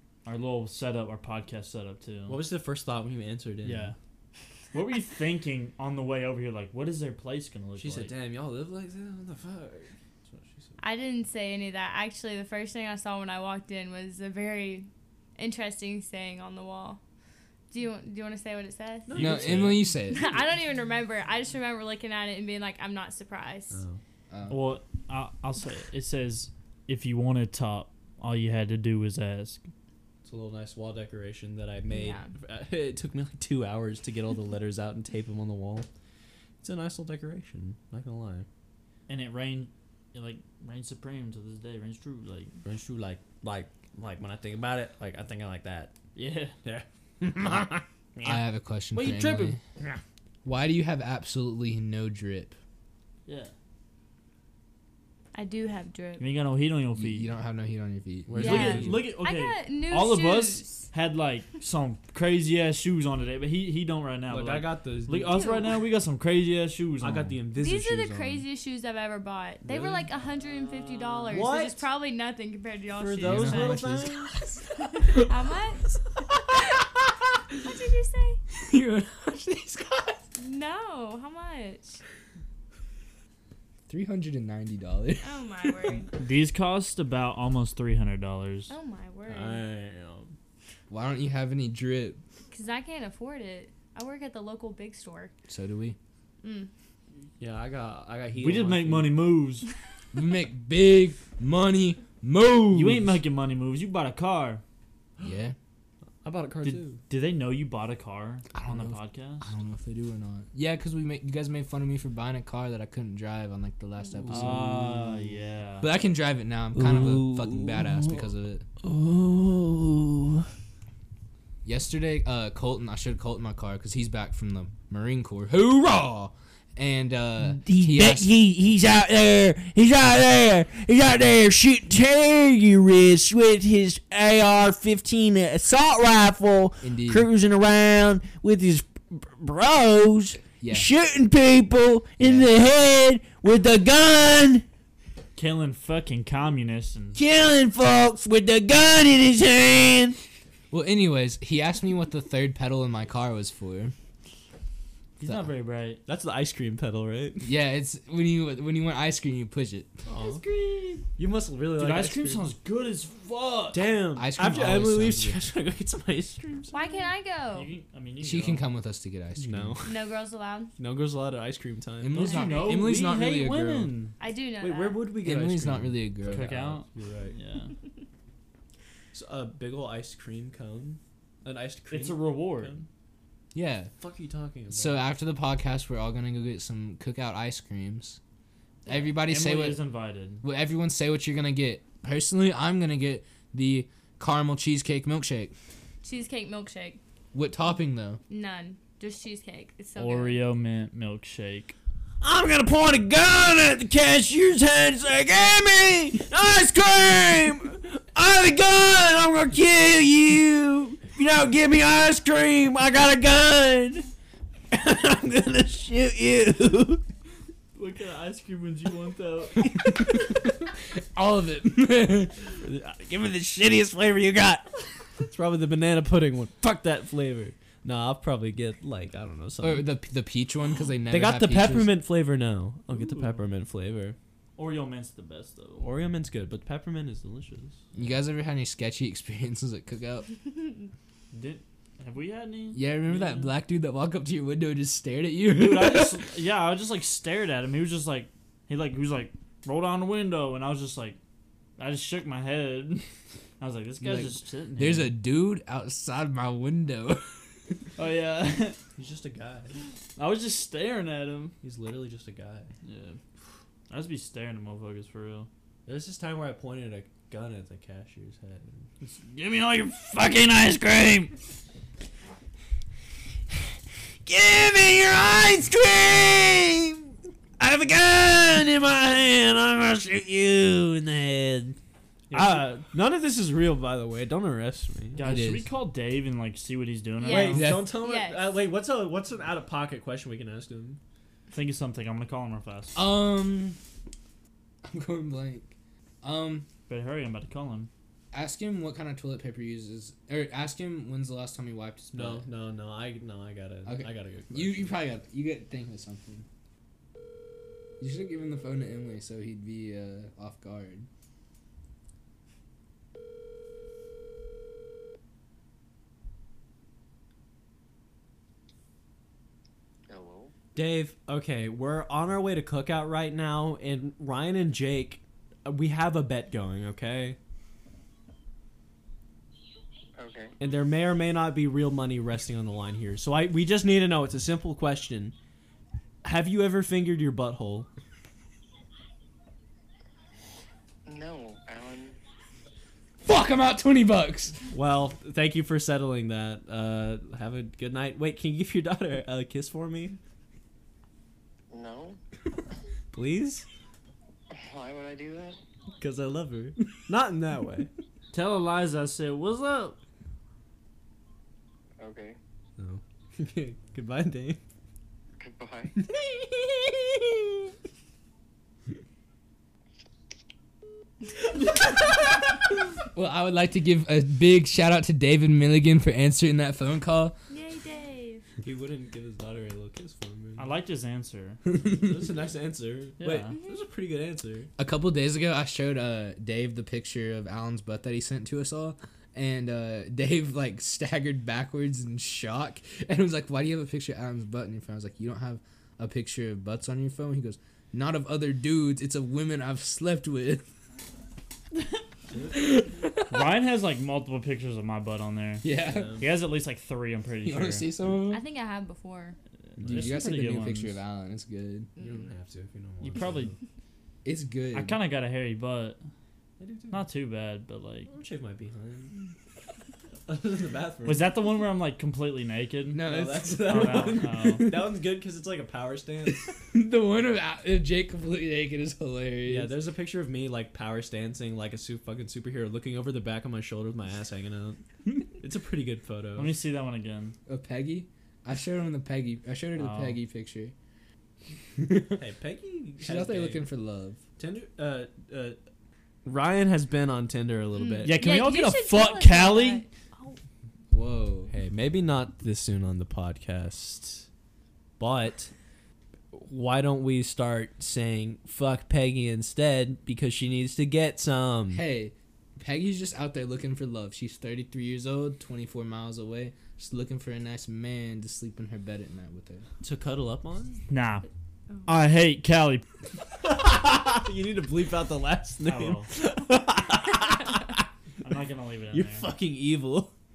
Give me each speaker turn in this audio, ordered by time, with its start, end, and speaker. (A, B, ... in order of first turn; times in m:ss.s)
0:00.2-0:02.4 A
0:02.3-0:03.9 B
0:03.6-0:04.0 A
0:04.7-0:08.1 A
0:07.8-0:10.8 B
0:10.8-0:17.0 C
0:17.7-0:23.8 C
0:19.1-0:20.5 B
0:19.1-0:20.3 D
0:23.7-0:24.0 B
0:24.3-0:24.7 D
0:24.5-0:29.6 A
0:30.2-0:35.9 B
0:31.9-0:32.3 C
0:36.6-0:38.5 B
0:39.1-0:42.5 A
0:42.6-0:45.9 B
0:46.2-0:46.6 A
0:46.6-0:48.4 B
0:48.2-0:49.6 D
0:48.9-0:49.6 A
0:50.4-0:52.6 D
0:53.3-0:53.5 A
0:55.3-0:56.2 C
0:56.2-0:57.3 A
0:57.0-0:58.9 D
0:58.3-0:59.0 B
0:58.4-1:07.4 A
0:58.4-1:00.9 C
1:04.3-1:05.7 B
1:05.3-1:05.8 C
1:07.0-1:08.4 B
1:07.6-1:14.0 C
1:09.6-1:10.1 B
1:10.7-1:11.4 A
1:11.3-1:11.8 B
1:12.9-1:14.4 B
1:13.2-1:15.3 D
1:14.8-1:15.8 C
1:17.6-1:18.4 C
1:18.6-1:20.2 D
1:20.4-1:22.0 C
1:23.9-1:26.1 D
1:25.2-1:26.1 C
1:26.2-1:28.7 A
1:28.7-1:29.6 C
1:29.3-1:30.3 B
1:30.9-1:32.2 D
1:32.5-1:35.3 C
1:35.5-1:36.0 D
1:36.4-1:36.7 C
1:37.4-1:39.2 B
1:38.4-1:39.7 A
1:40.1-1:43.2 D
1:42.7-1:44.6 A
1:45.2-1:45.6 D
1:46.2-1:47.0 B
1:46.6-1:49.5 A
1:48.5-1:55.1 D
1:54.3-1:55.9 A
1:55.8-1:58.7 D
1:56.8-1:58.2 E
1:58.8-2:00.5 E
2:01.6-2:08.3 D
2:07.5-2:24.6 E
2:16.8-2:17.3 D
2:20.6-2:20.9 D
2:22.2-2:22.5 D
2:25.4-2:27.2 A
2:27.2-2:30.2 E
2:30.7-2:33.9 D
2:35.2-2:36.0 A
2:35.2-2:35.5 D
2:36.1-2:37.5 B
2:37.4-2:39.9 D
2:40.1-2:40.4 B
2:40.2-2:41.1 A
2:41.2-2:42.5 B
2:41.8-2:43.9 A
2:43.7-2:46.9 B
2:44.2-2:45.4 D
2:46.7-2:47.7 C
2:47.5-2:48.6 A
2:48.2-2:49.8 D
2:49.4-2:50.0 B
2:49.8-2:50.7 C
2:50.8-2:52.3 B
2:52.0-2:53.9 D
2:52.2-2:54.1 A
2:52.2-2:52.8 C
2:54.2-2:55.0 C
2:54.6-2:57.4 B
2:55.2-2:56.8 D
2:56.2-2:57.7 A
2:59.1-3:02.9 B
3:01.9-3:02.8 A
3:03.5-3:03.9 D
3:04.0-3:05.0 B
3:04.7-3:08.2 D
3:08.9-3:09.8 D
3:08.9-3:10.4 A
3:10.4-3:15.5 D
3:16.0-3:17.0 C
3:17.3-3:18.2 D
3:18.3-3:20.4 C
3:20.0-3:21.7 A
3:22.2-3:24.3 B
3:23.3-3:27.6 E
3:27.0-3:33.2 B
3:29.6-3:30.7 E
3:31.5-3:32.0 E
3:32.8-3:34.0 E
3:34.8-3:36.9 E
3:34.9-3:37.0 B
3:37.8-3:39.7 A
3:40.1-3:40.6 D
3:41.1-3:42.4 D
3:42.6-3:44.6 B
3:45.2-3:49.9 B
3:49.6-3:52.0 D
3:51.1-3:54.2 B
3:52.9-3:53.4 A
3:54.6-3:55.9 A
3:55.8-3:57.8 B
3:58.0-4:00.3 D
4:01.3-4:03.6 A
4:02.7-4:06.2 D
4:05.5-4:11.2 A
4:11.8-4:13.0 A
4:13.6-4:15.2 A
4:14.0-4:17.9 D
4:18.0-4:18.8 A
4:19.0-4:19.8 B
4:20.2-4:21.6 A
4:21.6-4:22.7 B
4:22.8-4:23.2 A
4:23.9-4:25.5 A
4:25.8-4:28.8 B
4:29.0-4:31.3 A
4:30.8-4:31.1 E
4:34.3-4:37.1 E
4:37.6-4:41.8 E
4:42.3-4:45.2 B
4:42.3-4:42.6 A
4:45.2-4:47.7 A
4:45.2-4:45.7 D
4:47.2-4:48.5 C
4:47.2-4:51.0 B
4:47.5-4:47.9 D
4:51.5-4:53.0 A
4:53.0-4:53.8 D
4:54.8-4:56.7 D
4:56.9-4:57.9 A
4:58.3-5:02.5 D
5:02.1-5:05.0 B
5:03.9-5:06.5 D
5:08.0-5:11.1 D
5:20.1-5:20.5 F
5:20.7-5:27.4 B
5:30.2-5:30.5 F
5:30.6-5:35.3 B
5:36.2-5:37.9 B
5:41.1-5:42.2 F
5:43.2-5:44.6 D
5:44.7-5:50.2 B
5:51.7-5:52.2 F
5:53.1-5:53.7 B
5:54.5-5:55.6 F
5:56.0-5:57.9 B
5:58.3-6:00.0 A
6:02.0-6:02.4 F
6:02.8-6:04.6 B
6:05.4-6:05.9 F
6:06.0-6:06.9 B
6:13.1-6:17.4 D
6:17.5-6:18.4 C
6:18.6-6:20.7 B
6:20.6-6:21.6 A
6:21.8-6:24.7 B
6:23.2-6:23.5 A
6:23.5-6:23.8 C
6:24.8-6:40.7 D
6:42.3-6:42.8 B
6:42.6-6:43.4 D
6:43.2-6:47.9 A
6:45.6-6:46.2 D
6:45.8-6:46.3 B
6:47.4-6:48.4 D
6:48.3-6:49.4 C
6:49.7-6:51.0 A
6:49.8-6:50.2 B
6:49.9-6:51.9 D
6:52.0-6:52.2 C
6:52.0-6:53.6 B
6:53.0-6:53.5 A
6:54.2-6:55.0 D
6:54.7-6:56.0 A
6:56.6-6:57.0 B
6:56.9-6:58.1 A
6:58.1-6:59.2 B
7:00.3-7:01.3 B
7:01.0-7:04.7 A
7:02.9-7:04.9 D
7:03.0-7:06.5 B
7:06.6-7:09.7 D
7:09.5-7:16.6 B
7:16.4-7:17.4 A
7:17.5-7:20.7 D
7:19.8-7:20.2 A
7:21.8-7:22.2 D
7:22.2-7:23.7 B
7:23.0-7:24.2 D
7:24.4-7:25.6 B
7:26.2-7:28.2 B
7:27.8-7:30.4 C
7:28.0-7:29.8 A
7:30.9-7:31.5 D
7:31.5-7:34.3 B
7:35.0-7:35.5 B
7:36.3-7:41.8 B
7:41.7-7:49.7 D
7:49.8-7:50.8 B
7:50.9-7:51.3 A
7:51.9-7:52.9 A
7:53.4-7:57.9 B
7:55.6-7:56.1 A
7:58.2-7:59.3 A
7:58.9-8:00.1 B